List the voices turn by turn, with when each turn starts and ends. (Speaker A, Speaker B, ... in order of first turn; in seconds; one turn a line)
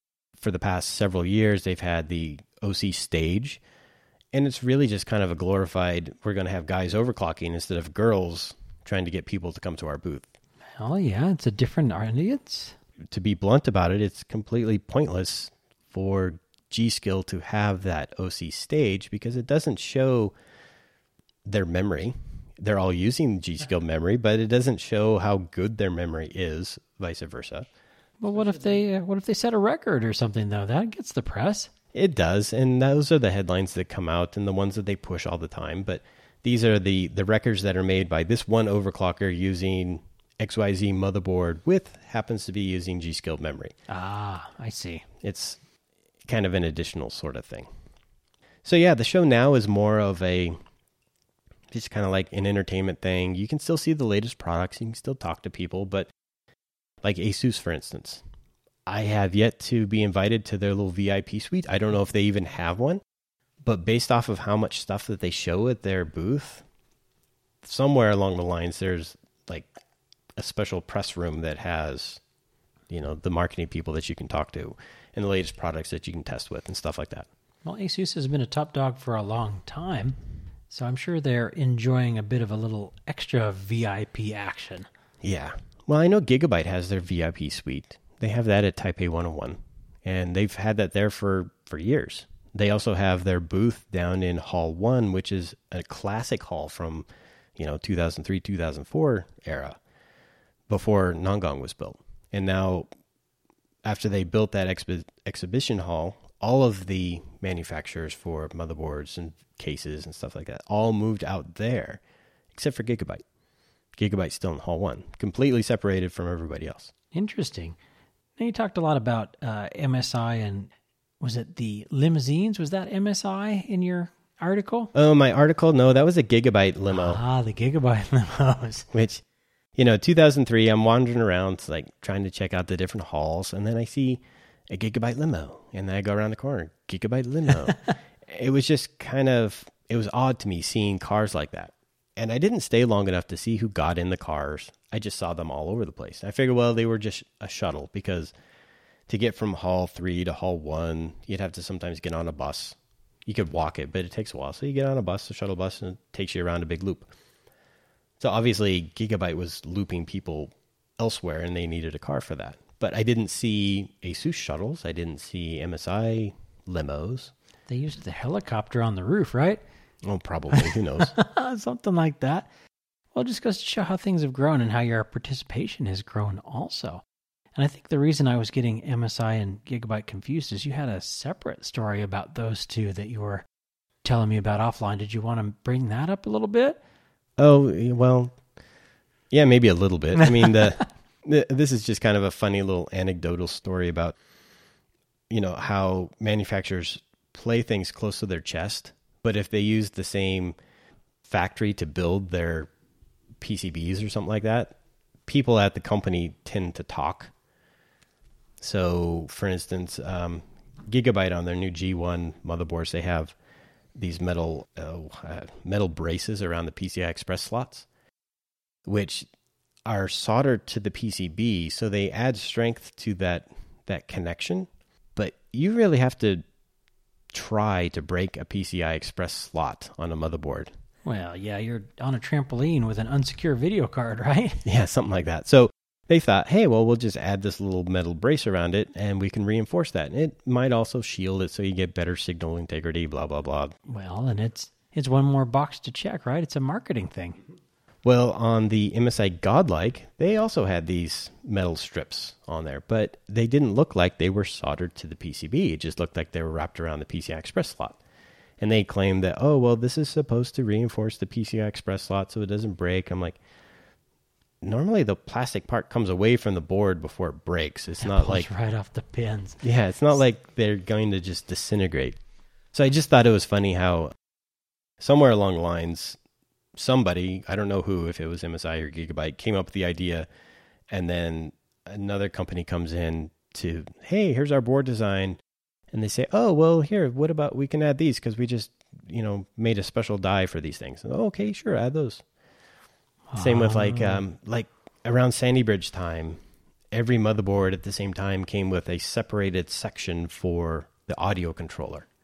Speaker A: 0.4-3.6
Speaker A: 4.3-10.3
Speaker B: 10.8-12.8
Speaker A: 13.1-20.4
Speaker A: 21.4-27.7
Speaker B: 28.2-31.7
Speaker A: 31.9-43.8
Speaker B: 43.9-45.0
Speaker A: 45.2-45.6
Speaker A: 46.3-47.7
Speaker A: 48.6-50.6
Speaker A: 51.7-56.1
Speaker A: 57.0-58.2
Speaker A: 58.9-63.0
Speaker A: 63.6-66.7
Speaker A: 67.6-69.7
Speaker A: 70.4-72.2
Speaker A: 72.9-77.3
Speaker B: 77.6-80.2
Speaker B: 80.7-84.9
Speaker A: 85.2-99.8
Speaker A: 100.7-102.9
Speaker A: 103.8-112.0
Speaker A: 112.5-113.2
Speaker A: 114.0-116.9
Speaker B: 117.1-117.8
Speaker B: 118.4-120.7
Speaker B: 121.2-124.9
Speaker A: 124.9-127.2
Speaker B: 126.9-128.9
Speaker A: 128.9-129.2
Speaker A: 129.8-148.3
Speaker A: 149.1-157.1
Speaker A: 158.2-167.3
Speaker B: 167.7-169.6
Speaker A: 170.0-171.1
Speaker B: 170.5-172.5
Speaker B: 173.1-177.0
Speaker B: 177.6-183.5
Speaker B: 184.0-186.8
Speaker A: 187.4-188.4
Speaker A: 189.3-194.2
Speaker B: 190.2-190.7
Speaker A: 195.3-200.6
Speaker A: 201.2-202.7
Speaker A: 203.4-204.8
Speaker A: 205.3-207.3
Speaker A: 208.6-213.4
Speaker A: 214.0-217.9
Speaker A: 218.8-219.3
Speaker A: 219.9-226.4
Speaker A: 227.3-230.7
Speaker B: 231.1-234.7
Speaker A: 234.7-243.8
Speaker B: 243.9-247.4
Speaker A: 248.0-258.0
Speaker A: 258.6-263.4
Speaker A: 264.6-268.5
Speaker B: 268.0-269.6
Speaker A: 269.6-272.2
Speaker A: 272.7-274.1
Speaker A: 275.0-276.2
Speaker A: 276.8-280.3
Speaker A: 280.9-285.4
Speaker A: 285.9-292.2
Speaker B: 293.3-294.2
Speaker A: 293.4-296.4
Speaker A: 296.9-302.1